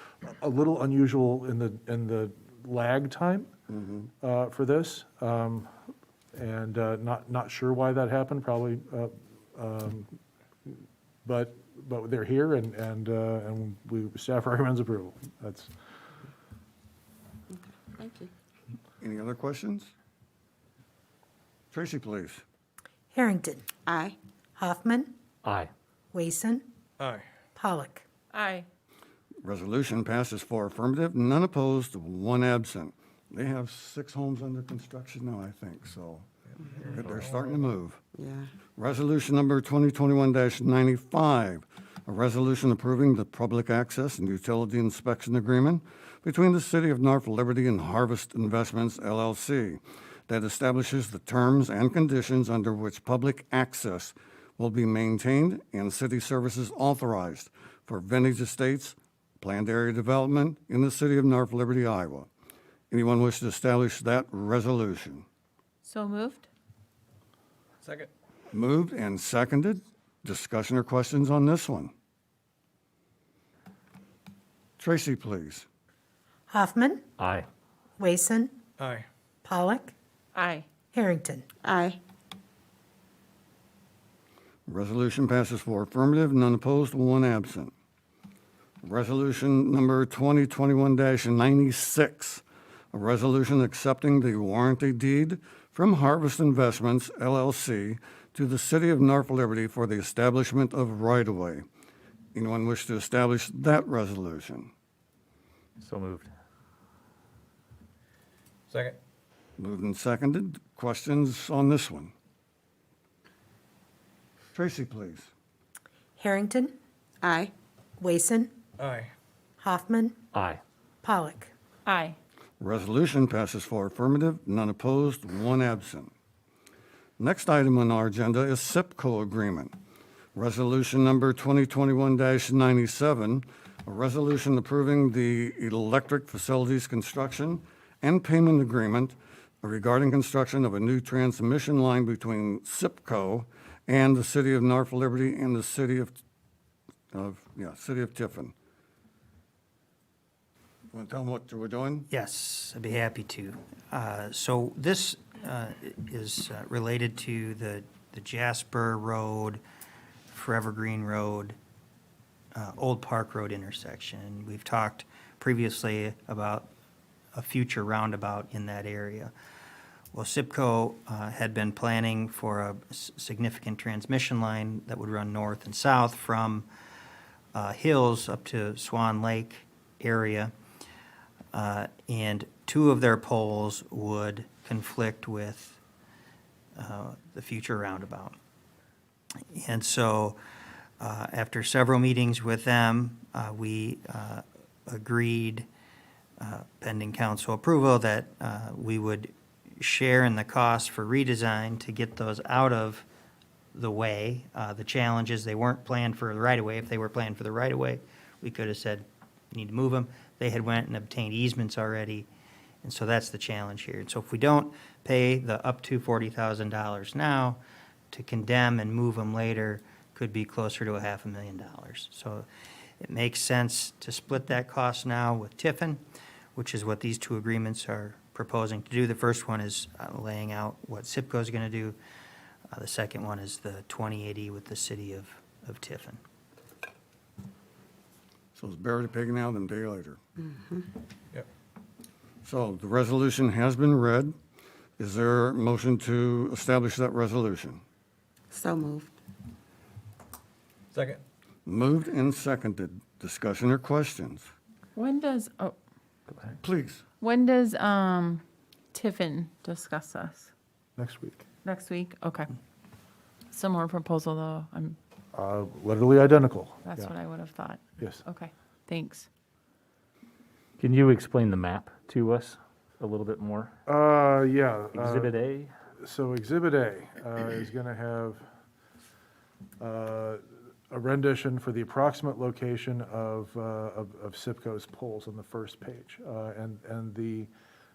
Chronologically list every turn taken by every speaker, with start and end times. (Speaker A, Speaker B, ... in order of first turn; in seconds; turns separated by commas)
Speaker A: 0.2-3.5, Speaker B: 3.7-4.1, Speaker A: 4.2-5.7, Speaker A: 6.3-10.2, Speaker A: 11.2-15.7, Speaker C: 17.5-18.3, Speaker B: 19.0-19.9, Speaker B: 21.7-22.4, Speaker D: 23.1-23.6, Speaker C: 23.9-24.2, Speaker D: 24.6-25.1, Speaker E: 25.4-25.7, Speaker D: 26.1-26.6, Speaker F: 27.0-27.3, Speaker D: 27.6-28.1, Speaker G: 28.3-28.7, Speaker B: 29.4-36.3, Speaker F: 36.6-37.6, Speaker B: 36.8-38.0, Speaker E: 37.0-37.3, Speaker C: 38.1-38.5, Speaker B: 38.8-62.3, Speaker B: 62.9-65.2, Speaker G: 65.8-66.5, Speaker F: 67.8-68.1, Speaker B: 68.5-71.9, Speaker B: 74.8-75.7, Speaker D: 76.5-77.0, Speaker E: 77.2-77.5, Speaker D: 78.0-78.5, Speaker F: 78.8-79.1, Speaker D: 79.5-79.9, Speaker G: 80.3-80.7, Speaker D: 80.9-81.5, Speaker C: 81.6-82.0, Speaker B: 84.7-87.7, Speaker B: 88.8-101.7, Speaker B: 102.3-104.7, Speaker E: 105.8-106.3, Speaker F: 108.7-109.0, Speaker B: 109.6-112.1, Speaker B: 114.5-115.3, Speaker D: 116.2-116.8, Speaker C: 117.2-117.5, Speaker D: 118.0-118.5, Speaker F: 118.8-119.1, Speaker D: 119.6-120.2, Speaker E: 120.3-120.6, Speaker D: 121.0-121.5, Speaker G: 121.9-122.2, Speaker B: 122.6-126.1, Speaker B: 127.2-129.7, Speaker B: 130.3-146.2, Speaker B: 147.1-148.5, Speaker B: 150.9-152.1, Speaker H: 152.1-159.6, Speaker H: 160.3-161.6, Speaker H: 162.5-166.7, Speaker H: 167.3-169.3, Speaker H: 170.1-176.7, Speaker H: 177.5-180.5, Speaker H: 181.5-185.8, Speaker H: 186.8-188.4, Speaker H: 189.5-190.4, Speaker H: 191.0-195.7, Speaker H: 196.4-203.1, Speaker H: 203.7-212.3, Speaker H: 212.8-217.6, Speaker H: 218.1-222.5, Speaker H: 223.0-226.0, Speaker H: 226.6-232.0, Speaker H: 232.7-236.2, Speaker B: 238.6-240.2, Speaker C: 240.4-240.8, Speaker B: 242.4-244.3, Speaker B: 245.0-247.8, Speaker C: 248.5-249.2, Speaker F: 250.9-251.2, Speaker B: 251.7-254.5, Speaker G: 255.0-255.7, Speaker B: 256.6-257.0, Speaker G: 257.2-258.4, Speaker G: 258.9-260.5, Speaker A: 261.0-261.5, Speaker G: 261.6-262.6, Speaker G: 263.5-265.0, Speaker A: 265.3-267.1, Speaker G: 266.8-269.3, Speaker A: 268.0-268.2, Speaker E: 270.8-273.7, Speaker A: 273.9-275.3, Speaker E: 274.9-275.7, Speaker A: 276.0-278.4, Speaker A: 279.8-287.5